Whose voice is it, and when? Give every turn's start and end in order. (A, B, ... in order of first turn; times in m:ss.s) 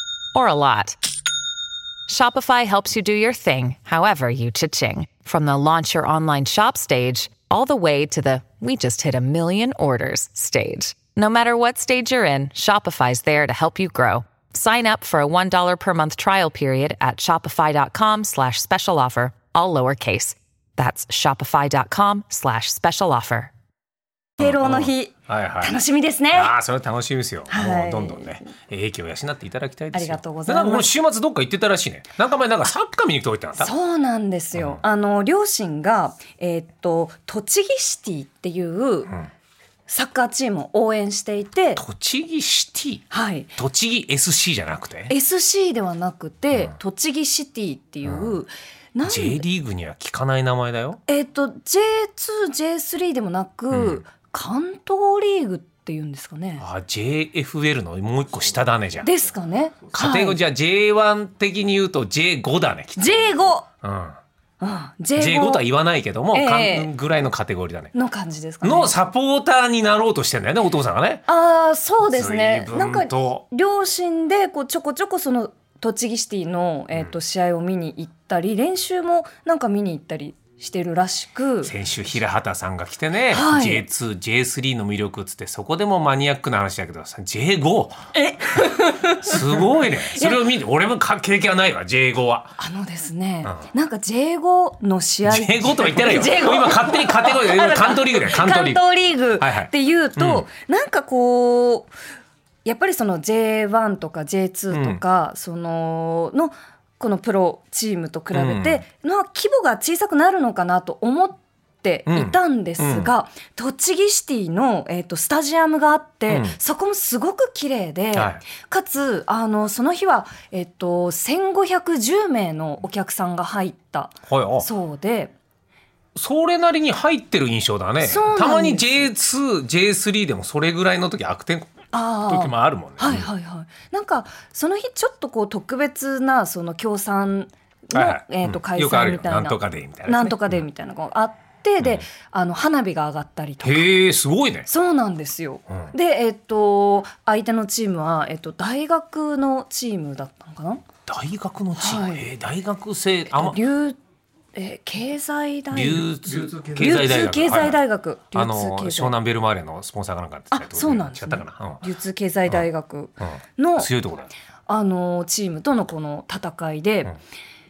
0:00.3-0:01.0 A
0:02.1-0:23.5 A
0:24.4-0:26.5 B
0:24.4-0:25.8 C
0:26.3-0:33.7 C
0:27.5-0:28.4 B
0:29.9-0:30.9 B
0:33.6-0:39.1 B
0:34.5-0:34.8 C
0:39.9-0:41.8 B
0:41.8-0:45.1 C
0:43.1-0:43.5 B
0:45.1-0:49.4 B
0:48.0-0:48.4 C
0:49.0-0:51.0 C
0:51.0-0:56.6 B
0:53.7-0:54.0 C
0:56.6-0:59.1 C
0:59.0-1:00.4 B
0:59.9-1:04.2 C
1:03.0-1:03.6 B
1:04.6-1:05.6 B
1:05.1-1:07.9 C
1:06.3-1:06.9 B
1:07.9-1:08.9 B
1:08.6-1:11.2 C
1:11.3-1:21.7 B
1:12.1-1:13.4 C
1:21.6-1:28.0 C
1:23.3-1:23.8 B
1:28.1-1:30.4 B
1:29.2-1:32.6 C
1:32.6-1:41.9 B
1:35.2-1:38.8 C
1:39.4-1:40.4 C
1:42.6-2:05.3 B
1:44.7-1:45.0 C
1:48.3-1:48.8 C
1:52.1-1:53.1 C
1:56.3-1:56.6 C
1:58.1-1:58.4 C
2:04.3-2:04.7 C
2:06.1-2:11.7 C
2:08.0-2:09.1 B
2:11.9-2:23.9 B
2:12.3-2:13.3 C
2:17.9-2:20.6 C
2:23.6-2:24.7 C
2:24.7-2:30.8 B
2:31.1-2:33.6 C
2:31.8-2:32.2 B
2:33.3-2:34.0 B
2:34.5-2:39.2 B
2:35.7-2:37.8 C
2:38.3-2:41.8 C
2:40.5-2:43.9 B
2:43.2-2:44.3 C
2:44.7-2:47.1 B